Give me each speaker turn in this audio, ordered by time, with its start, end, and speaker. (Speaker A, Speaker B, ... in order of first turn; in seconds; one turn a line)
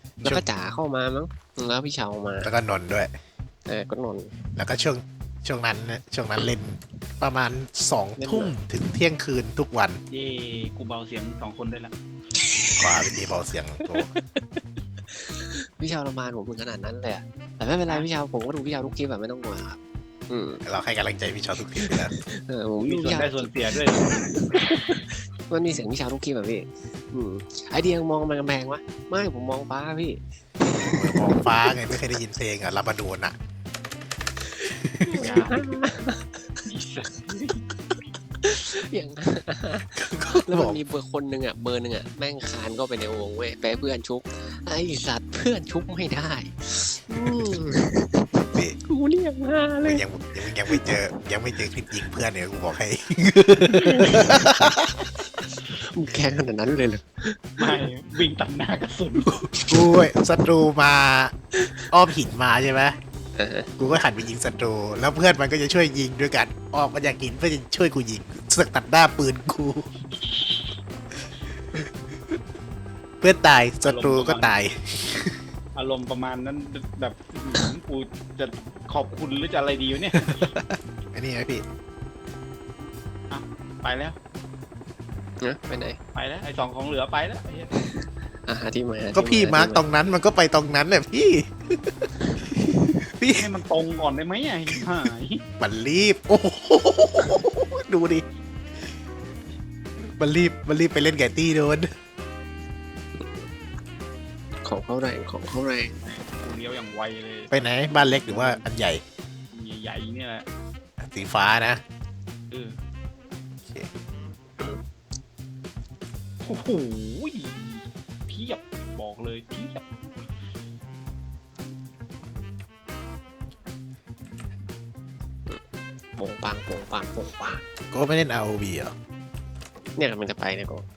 Speaker A: 0.2-2.5
Speaker B: 2.4-3.1
Speaker A: 3.7-4.3
Speaker B: 4.5-10.0
Speaker A: 8.2-8.6
Speaker C: 10.1-11.9
Speaker A: 12.4-13.1
Speaker B: 12.7-14.1
Speaker A: 13.8-20.6
Speaker B: 20.6-22.1
Speaker A: 21.7-31.4
Speaker C: 22.8-24.4
Speaker B: 30.7-33.4
Speaker B: 34.7-35.6
Speaker A: 35.0-36.7
Speaker C: 35.2-35.6
Speaker C: 36.7-37.7
Speaker A: 38.4-50.1
Speaker B: 39.9-40.8
Speaker B: 49.8-54.9
Speaker A: 53.7-54.7
Speaker C: 53.9-54.3
Speaker A: 55.8-57.8
Speaker B: 56.1-56.5
Speaker C: 57.6-59.4
Speaker B: 59.7-61.3
Speaker A: 61.5-61.8
Speaker B: 61.9-63.0
Speaker A: 63.3-63.7
Speaker B: 63.8-69.9
Speaker C: 70.2-70.6
Speaker B: 73.2-75.4
Speaker C: 73.8-74.5
Speaker C: 75.7-80.5
Speaker B: 80.3-81.6
Speaker C: 83.3-84.2
Speaker A: 85.4-86.0
Speaker C: 86.1-87.7
Speaker A: 87.8-89.8
Speaker B: 89.1-93.5
Speaker C: 93.4-95.4
Speaker B: 95.6-98.2
Speaker B: 100.2-101.9
Speaker A: 103.2-103.5
Speaker A: 104.6-105.9
Speaker C: 106.0-108.6
Speaker B: 107.5-109.0
Speaker C: 109.5-110.5
Speaker B: 111.0-111.8
Speaker C: 112.5-112.8
Speaker B: 113.6-113.9
Speaker C: 116.4-119.9
Speaker A: 126.2-127.6
Speaker B: 127.9-128.9
Speaker A: 129.9-130.8